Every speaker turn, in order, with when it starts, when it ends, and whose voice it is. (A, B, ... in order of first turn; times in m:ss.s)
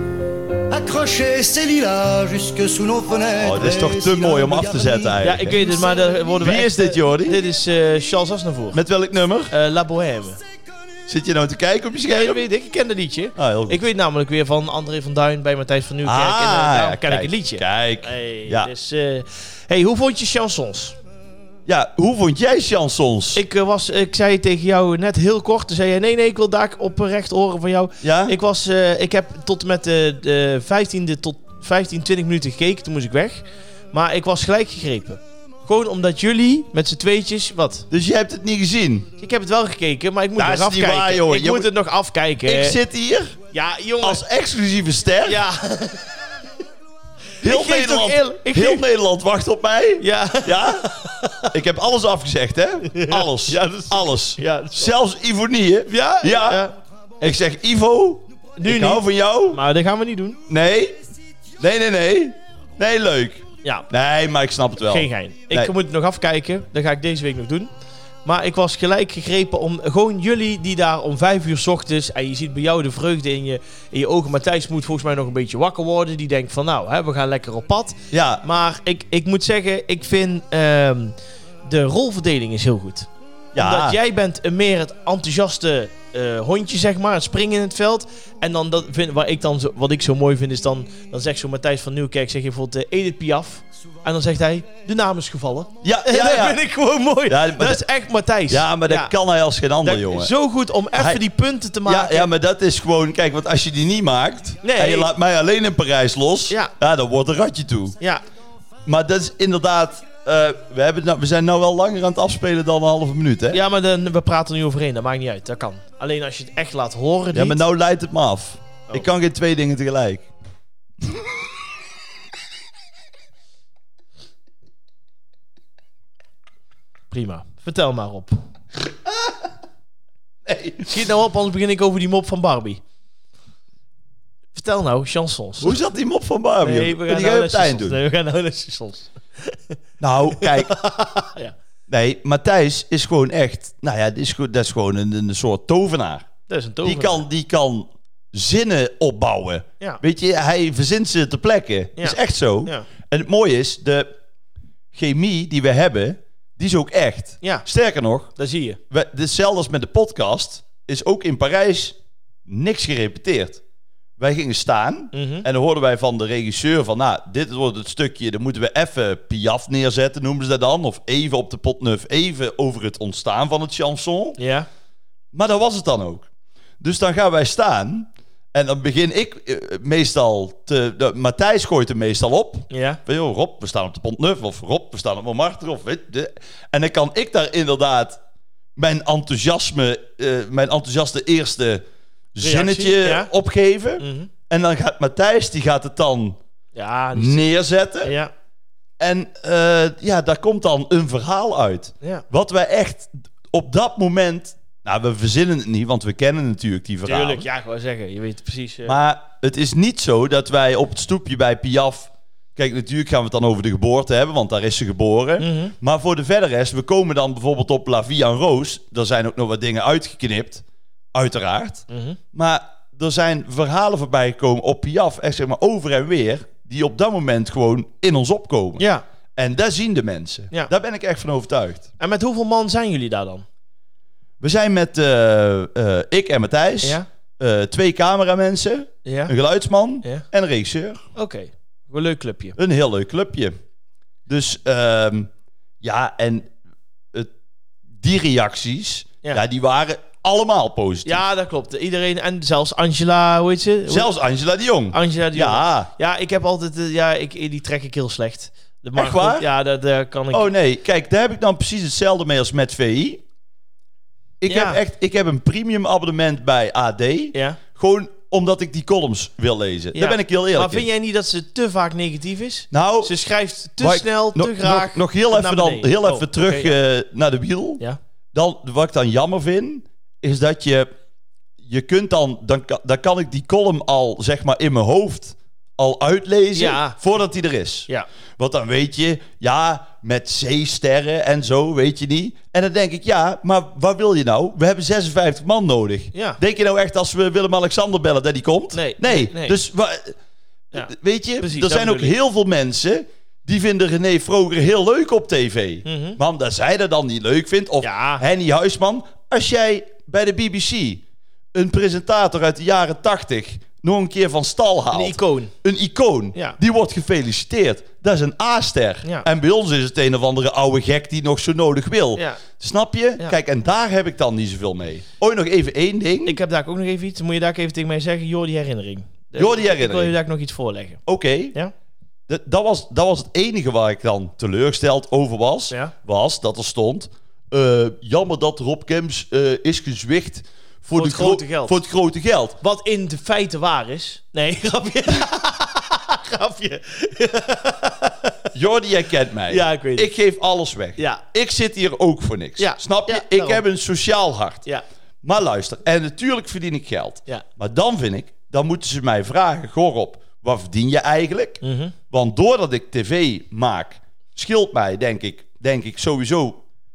0:00.7-0:06.2 A
0:03.4-0:05.6 B
0:05.2-0:08.8 C
0:06.4-0:07.4 B
0:08.7-0:09.5 B
0:09.5-0:10.4 C
0:11.1-0:12.4 B
0:12.1-0:21.0 C
0:13.4-0:13.9 B
0:16.0-0:18.7 B
0:21.7-0:23.4 B
0:23.4-0:37.9 C
0:28.0-0:28.4 B
0:37.9-0:39.1 B
0:39.2-0:42.8 C
0:40.4-0:41.7 B
0:42.4-0:43.4 B
0:43.5-0:44.2 C
0:44.0-0:45.4 B
0:45.2-0:46.0 C
0:47.4-0:48.8 C
0:47.4-0:50.9 B
0:50.0-0:51.5 C
0:51.5-0:56.6 B
0:52.9-0:54.9 C
0:55.9-0:56.8 C
0:57.2-0:59.6 B
0:58.6-1:00.4 C
1:00.5-1:01.0 B
1:01.6-1:05.7 B
1:04.8-1:07.7 C
1:08.2-1:21.2 C
1:18.1-1:18.4 B
1:21.7-1:39.1 C
1:23.5-1:24.0 B
1:35.8-1:36.6 B
1:37.3-1:37.8 B
1:38.5-1:40.3 B
1:39.8-1:42.3 C
1:40.9-1:41.2 B
1:41.8-1:48.0 B
1:44.6-1:45.1 C
1:48.8-1:53.6 B
1:53.5-1:57.6 C
1:57.3-2:00.3 B
2:07.1-2:08.4 C
2:10.5-2:10.9 B
2:10.8-2:12.8 C
2:14.5-2:15.8 C
2:15.6-2:18.0 B
2:16.6-2:19.6 C
2:20.0-2:20.8 B
2:20.4-2:21.5 C
2:21.9-2:26.3 B
2:26.5-2:27.2 C
2:26.8-2:34.1 B
2:32.0-2:32.9 C
2:34.9-2:38.3 B
2:38.4-2:38.8 C
2:38.9-2:43.6 B
2:44.2-2:54.4 B
2:45.1-2:45.5 C
2:54.4-2:54.7 C
2:55.3-2:56.3 B
2:56.8-3:08.2 B
3:02.7-3:03.0 C
3:08.8-3:16.4 B
3:12.4-3:13.3 C
3:14.0-3:14.3 C
3:16.8-3:17.5 C
3:17.1-3:18.1 B
3:18.0-3:18.3 C
3:19.0-3:27.5 B
3:27.0-3:29.0 C
3:28.8-3:48.8 B
3:35.4-3:35.7 C
3:41.9-3:42.2 C
3:48.8-3:49.0 C
3:49.4-3:51.9 B
3:52.0-3:53.4 C
3:54.4-4:01.0 B
3:59.1-3:59.3 C
4:01.2-4:02.6 C
4:02.6-4:03.6 B
4:04.3-4:05.3 B
4:05.8-4:06.5 B
4:08.0-4:11.2 B
4:11.0-4:14.1 C
4:13.9-4:15.9 B
4:14.9-4:20.5 C
4:19.0-4:19.5 B
4:20.3-4:23.2 B
4:24.4-4:30.9 B
4:24.5-4:24.8 C
4:27.3-4:27.6 C
4:30.0-4:36.8 C
4:32.7-4:33.2 B
4:33.8-4:37.8 B
4:38.3-4:40.9 B
4:41.6-5:00.2 B
4:46.6-4:47.0 C
4:56.1-4:56.4 C
4:58.7-4:59.6 C
5:00.7-5:02.2 C
5:00.7-5:11.0 B
5:05.8-5:06.2 C
5:07.8-5:08.2 C
5:11.5-5:26.4 B
5:14.9-5:15.5 C
5:22.2-5:22.4 C
5:26.2-5:31.0 C
5:29.4-5:30.2 B
5:31.1-5:31.6 B
5:32.3-5:42.6 B
5:40.9-5:41.8 C
5:42.6-5:48.4 C
5:48.5-5:54.7 B
5:49.5-5:50.1 C
5:51.0-5:51.2 C
5:52.6-5:53.6 C
5:55.2-6:06.6 B
6:01.6-6:02.0 C